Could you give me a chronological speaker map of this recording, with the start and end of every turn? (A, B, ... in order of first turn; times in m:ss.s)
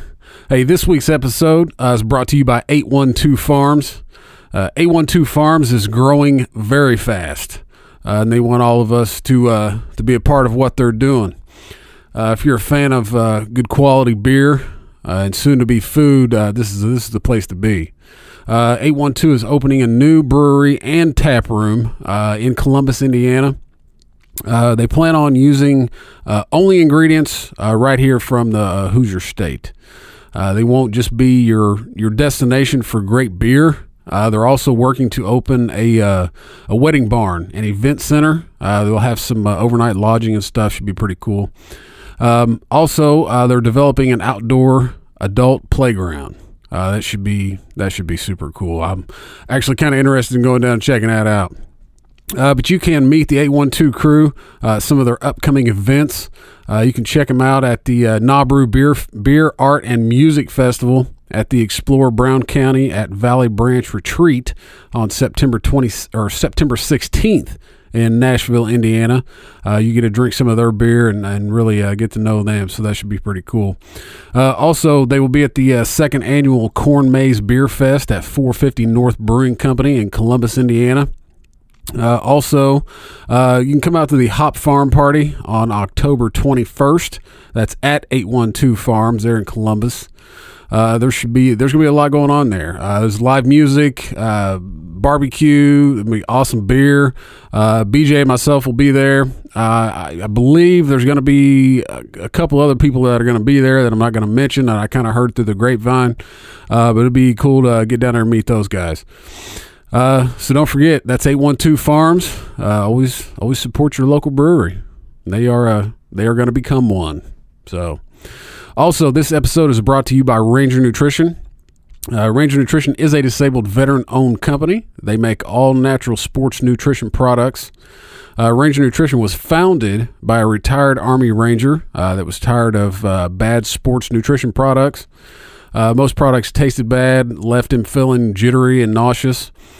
0:00.5-0:11.4 A
0:12.1-0:17.9 A
0:18.5-0:23.6 A
0:24.5-0:29.7 A
0:30.3-0:41.5 A
0:42.2-0:51.6 A
0:52.3-1:13.8 A
1:14.3-1:21.1 A
1:22.0-1:30.1 A
1:30.7-1:46.2 A
1:46.7-1:58.0 A
1:58.8-2:01.4 A
2:02.1-2:07.7 A
2:08.4-2:15.1 A
2:15.7-2:19.5 A